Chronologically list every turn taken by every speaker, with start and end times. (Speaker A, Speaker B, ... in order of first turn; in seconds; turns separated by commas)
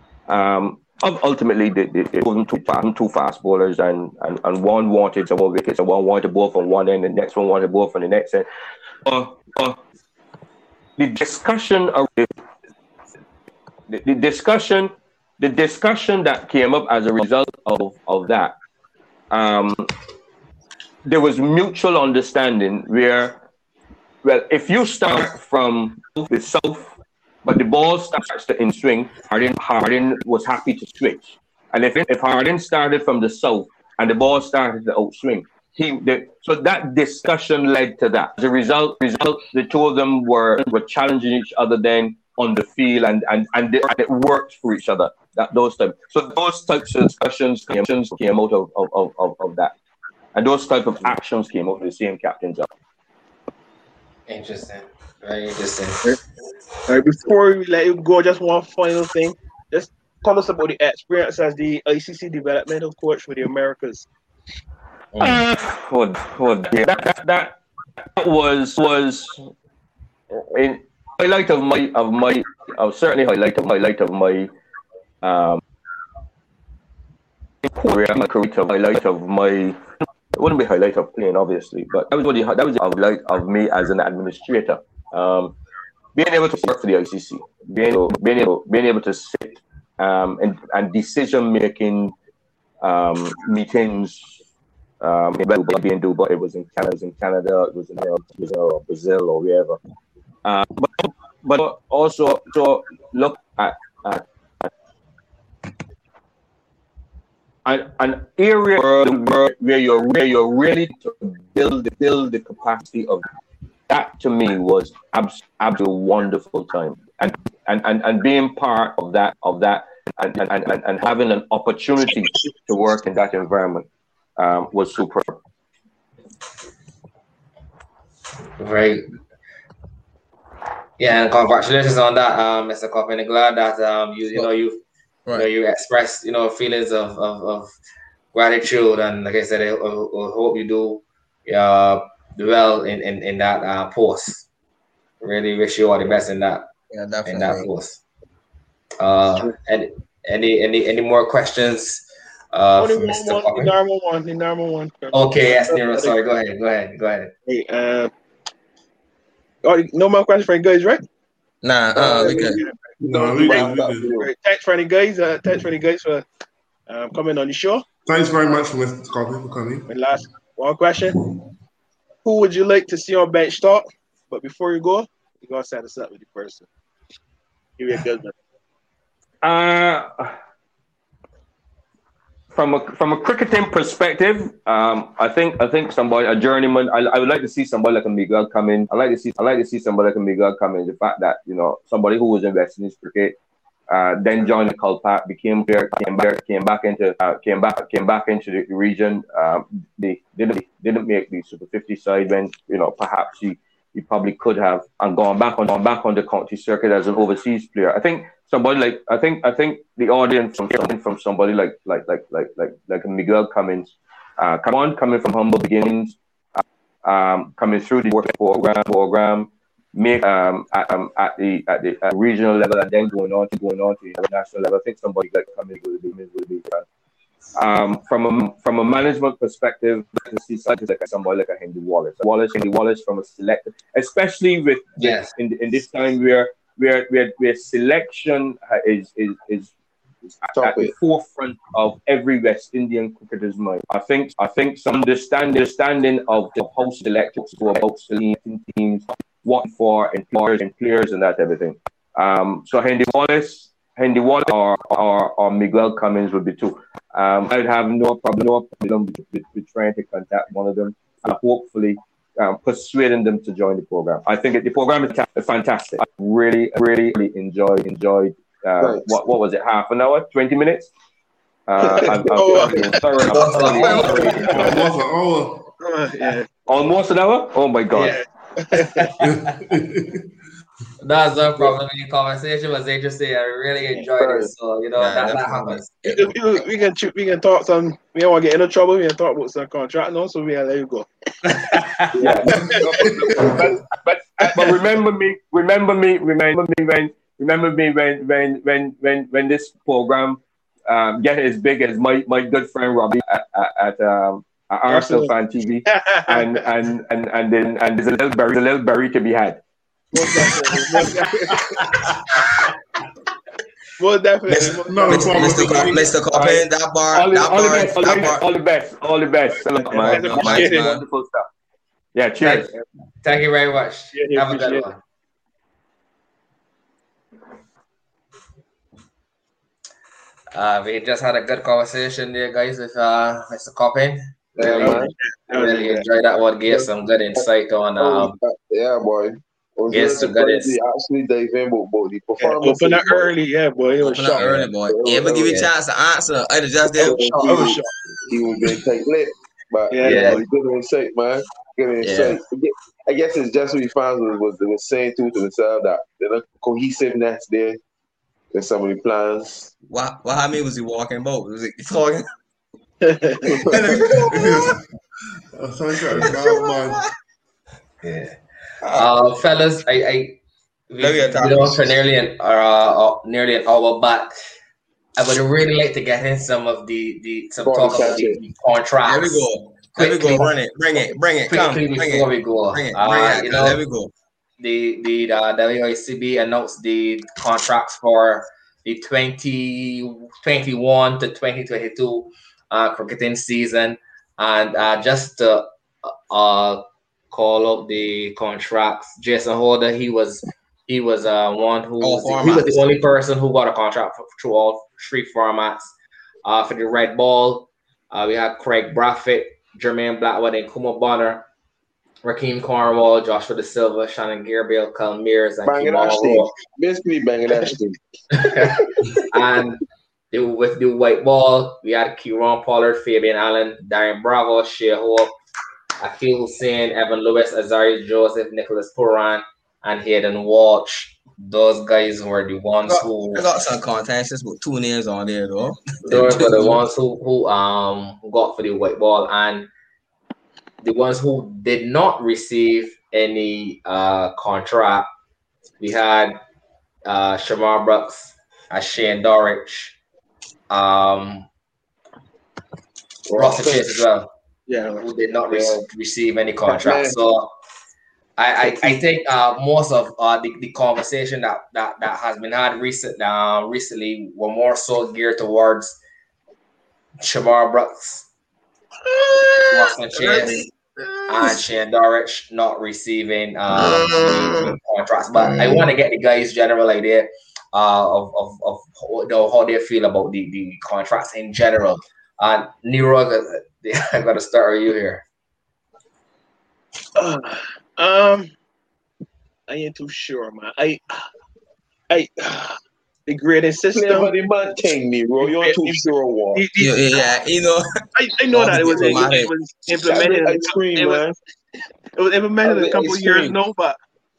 Speaker A: 0.3-8.5, Speaker A: 9.1-9.8, Speaker A: 11.0-12.3, Speaker A: 13.9-18.6, Speaker A: 19.3-19.9, Speaker A: 21.1-23.4, Speaker A: 24.2-49.7, Speaker A: 50.3-52.7, Speaker B: 54.3-56.0, Speaker C: 56.9-64.1, Speaker B: 65.1-65.4, Speaker A: 65.2-67.6, Speaker A: 68.2-69.5, Speaker A: 70.5-74.5, Speaker A: 75.2-75.6, Speaker A: 77.6-79.8, Speaker A: 80.3-85.5, Speaker A: 86.1-92.1, Speaker A: 92.8-94.4, Speaker A: 95.0-99.8, Speaker A: 100.4-104.7, Speaker A: 107.6-113.2, Speaker A: 113.9-125.4, Speaker B: 128.6-129.0, Speaker B: 131.0-134.8, Speaker B: 135.3-137.7, Speaker B: 138.3-144.4, Speaker B: 145.2-146.7, Speaker D: 146.9-147.7, Speaker B: 147.2-148.0, Speaker B: 149.0-153.7, Speaker C: 152.8-156.2, Speaker B: 155.1-157.3, Speaker C: 157.4-158.1, Speaker C: 159.6-161.0, Speaker D: 161.6-162.6, Speaker E: 161.9-164.3, Speaker C: 162.1-166.2, Speaker F: 163.0-164.1, Speaker C: 166.9-167.8, Speaker F: 168.1-169.9, Speaker C: 169.9-171.2, Speaker C: 172.2-176.7, Speaker C: 177.8-178.3, Speaker A: 179.4-180.3, Speaker A: 182.5-193.3, Speaker A: 193.9-216.2, Speaker A: 217.0-226.8, Speaker A: 227.5-239.7, Speaker B: 235.0-235.3, Speaker A: 240.4-270.9, Speaker E: 240.5-240.9, Speaker E: 268.8-269.1, Speaker A: 271.7-274.6, Speaker E: 271.8-273.0, Speaker C: 272.3-273.0, Speaker D: 273.2-274.5, Speaker B: 273.3-274.7, Speaker E: 273.7-274.5, Speaker F: 274.5-275.7, Speaker C: 275.8-276.5, Speaker A: 276.7-278.2, Speaker B: 277.9-278.2, Speaker C: 278.0-279.1, Speaker B: 278.7-279.5, Speaker F: 279.2-280.3, Speaker B: 281.0-285.9, Speaker E: 283.9-284.5, Speaker D: 285.0-286.3, Speaker C: 286.0-291.1, Speaker B: 291.4-292.3, Speaker E: 292.1-293.8, Speaker C: 292.6-293.1, Speaker A: 293.4-309.6, Speaker C: 304.9-305.3, Speaker C: 305.9-306.6, Speaker C: 310.1-311.7, Speaker A: 310.2-311.0, Speaker C: 314.0-315.6, Speaker D: 314.5-318.4, Speaker F: 314.8-316.1, Speaker A: 315.5-321.5, Speaker C: 319.5-320.9, Speaker D: 320.0-321.0, Speaker A: 322.1-322.7, Speaker B: 322.4-322.7, Speaker B: 323.2-325.0, Speaker C: 324.1-324.8, Speaker B: 330.5-338.4, Speaker E: 334.6-335.1, Speaker C: 334.8-336.1, Speaker E: 336.7-337.4, Speaker E: 338.0-343.3, Speaker B: 339.9-340.8, Speaker C: 342.4-344.6, Speaker D: 344.0-347.7, Speaker E: 344.8-345.7, Speaker E: 347.0-357.8, Speaker C: 347.1-347.9, Speaker C: 349.9-350.4, Speaker B: 350.0-350.4, Speaker D: 352.0-352.4, Speaker E: 358.5-359.7, Speaker D: 359.9-362.3, Speaker C: 363.0-363.5, Speaker D: 363.5-364.7, Speaker E: 363.5-364.0, Speaker F: 364.0-364.8, Speaker F: 365.5-367.0, Speaker D: 366.2-367.1, Speaker B: 368.0-368.3, Speaker D: 368.8-369.1, Speaker B: 368.9-370.4, Speaker B: 370.9-374.3, Speaker D: 371.0-371.8, Speaker B: 375.2-379.4, Speaker E: 377.6-378.4, Speaker D: 379.0-384.1, Speaker B: 379.9-380.5, Speaker B: 381.5-383.8, Speaker B: 384.6-405.9, Speaker D: 402.0-403.0, Speaker B: 406.4-411.4, Speaker B: 412.2-416.5, Speaker E: 415.6-418.9, Speaker B: 418.3-419.8, Speaker B: 420.3-425.3, Speaker B: 426.0-433.4, Speaker D: 432.9-436.8, Speaker B: 436.0-439.7, Speaker B: 440.8-445.1, Speaker B: 445.8-446.4, Speaker B: 447.0-449.9, Speaker B: 450.7-451.5, Speaker E: 453.3-453.9, Speaker B: 453.3-454.3, Speaker C: 454.7-455.0, Speaker B: 455.0-457.5, Speaker E: 455.5-455.9, Speaker E: 456.6-457.2, Speaker B: 458.4-466.0, Speaker E: 458.6-459.0, Speaker B: 467.2-468.3, Speaker D: 469.0-471.6, Speaker B: 469.7-470.6, Speaker B: 471.3-485.2, Speaker D: 473.7-474.7, Speaker D: 475.4-475.8, Speaker C: 487.1-488.5, Speaker C: 489.7-491.2, Speaker C: 492.1-494.3, Speaker E: 493.9-496.6, Speaker C: 495.4-497.2, Speaker D: 496.8-497.9, Speaker C: 498.1-501.3, Speaker D: 498.5-499.5, Speaker E: 500.0-501.3, Speaker C: 502.1-504.0, Speaker E: 502.6-503.6